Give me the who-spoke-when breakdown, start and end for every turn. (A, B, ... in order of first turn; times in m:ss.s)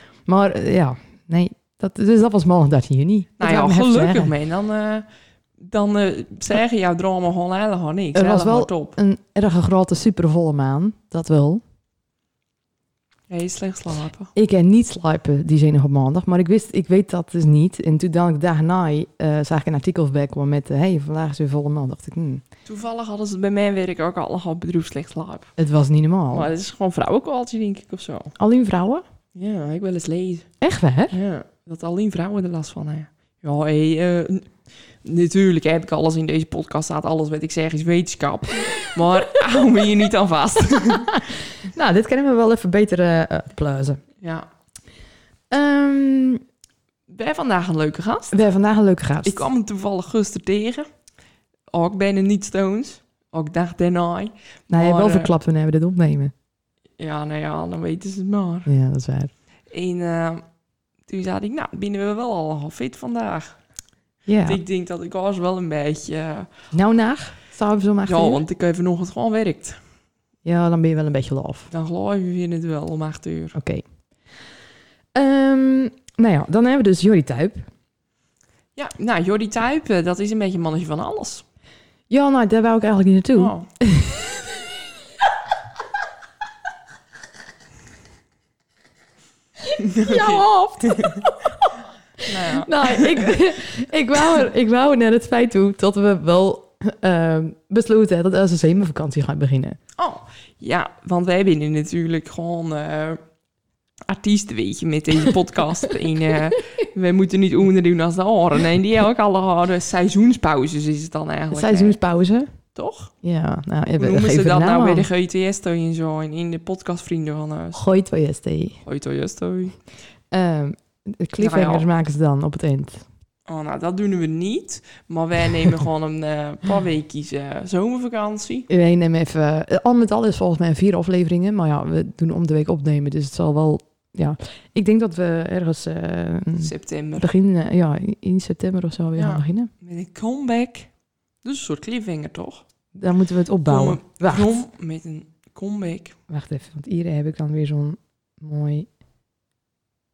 0:00.2-0:04.3 A
0:03.4-0:05.0 B
0:05.6-0:09.0 B
0:08.1-0:11.6 A
0:13.3-0:14.3 B
0:14.3-0:22.4 A
0:22.6-0:25.5 B
0:25.6-0:26.5 A
0:26.3-0:28.3 B
0:28.4-0:29.0 A
0:29.3-0:30.5 B
0:30.6-0:31.2 A
0:31.1-0:34.5 B
0:35.0-0:41.2 B
0:41.1-0:44.0 A
0:44.2-0:44.5 B
0:45.5-0:46.4 A
0:47.1-0:48.4 B
0:48.3-0:49.4 A
0:49.2-0:50.9 B
0:51.7-0:55.3 B
0:54.7-0:56.3 A
0:57.0-0:58.7 B
0:58.6-0:59.3 A
0:59.7-1:00.4 B
1:01.1-1:03.6 B
1:04.2-1:04.6 A
1:04.4-1:06.5 B
1:06.7-1:08.4 A
1:08.0-1:09.8 B
1:10.4-1:11.7 A
1:11.7-1:13.6 B
1:13.5-1:13.8 A
1:15.1-1:17.7 A
1:18.8-1:21.4 B
1:22.1-1:24.3 A
1:23.4-1:23.7 B
1:29.8-1:31.2 B
1:30.0-1:31.5 A
1:32.2-1:33.2 B
1:32.3-1:39.8 A
1:40.0-1:43.2 B
1:44.1-1:52.0 B
1:51.5-1:52.5 A
1:52.7-1:53.1 B
1:53.2-1:55.1 A
1:54.0-1:57.8 B
1:57.7-1:58.8 A
1:58.8-1:59.8 B
2:00.3-2:03.0 A
2:01.4-2:01.9 B
2:03.5-2:08.7 B
2:08.7-2:19.7 A
2:16.6-2:17.3 B
2:19.2-2:20.9 B
2:21.4-2:22.6 B
2:22.9-2:24.5 A
2:23.6-2:26.1 B
2:26.3-2:28.9 A